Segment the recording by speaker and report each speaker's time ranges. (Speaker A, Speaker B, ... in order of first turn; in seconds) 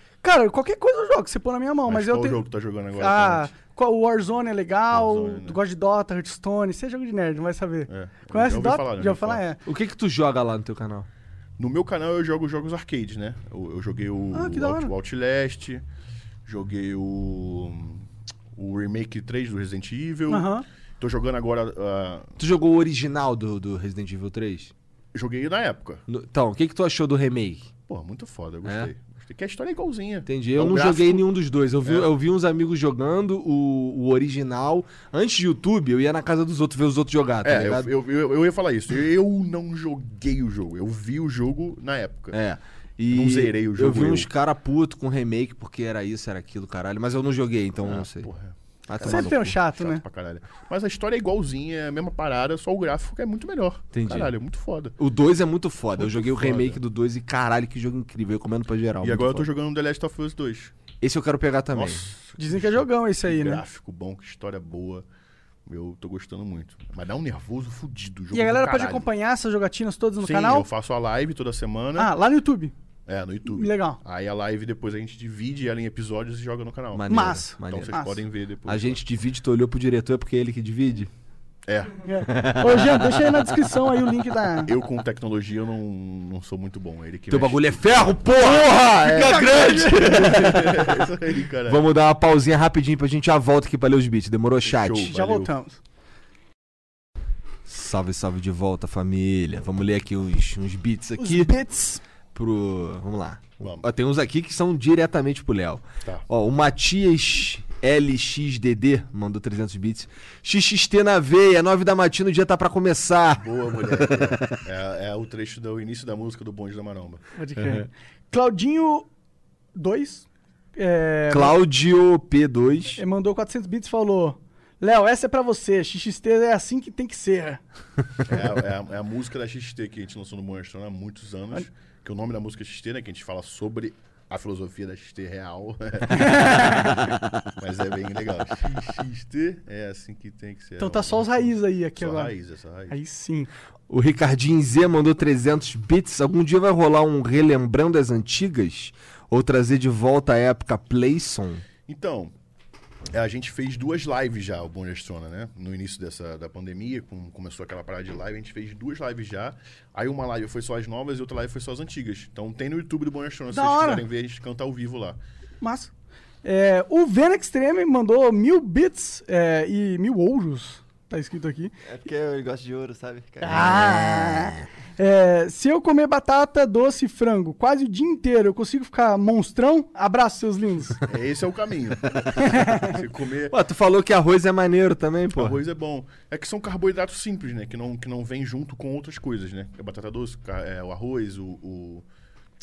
Speaker A: 0.2-2.4, 3.0-9.6, 14.3-14.9, 20.3-20.6, 49.0-50.0, 62.4-63.6, 68.3-70.7, 72.0-72.7, 73.5-74.0, 77.1-78.2, 82.0-84.7, 89.2-90.1, 95.1-95.8, 101.2-102.0, 117.3-119.1, 119.7-121.5, 123.0-127.6, 136.1-137.0, 140.8-142.3, 142.9-143.5, 163.5-164.0, 165.6-165.9, 166.4-171.7, 173.4-181.0, 182.4-182.9
Speaker B: 1.9-3.5, 4.9-5.6, 7.9-9.4, 11.6-15.8, 16.4-22.3, 25.1-26.0, 27.9-31.2, 31.8-32.1, 37.4-42.4, 43.1-44.3, 47.8-55.0, 55.9-56.8, 59.0-60.7, 61.7-65.0, 65.7-69.0, 70.2-72.1, 73.1-79.0, 81.7-82.0, 84.7-91.8, 94.6-95.5, 103.6-103.9, 113.4-117.2, 128.2-137.0, 137.6-143.0, 151.9-152.3, 153.1-165.2, 181.0-183.6, 185.3-192.0
Speaker C: 9.7-11.1, 22.4-24.7, 26.1-27.7, 28.6-28.9, 30.3-37.9, 42.3-48.3, 48.9-49.5, 53.9-54.3, 55.0-59.5, 61.0-62.0, 76.9-78.0, 78.7-81.1, 82.3-83.5, 87.3-91.1, 91.6-95.1, 97.6-101.5, 102.3-114.6, 117.6-117.8, 121.3-123.0, 143.9-151.6, 173.6-174.2, 183.5-185.6
Speaker D: 171.8-174.3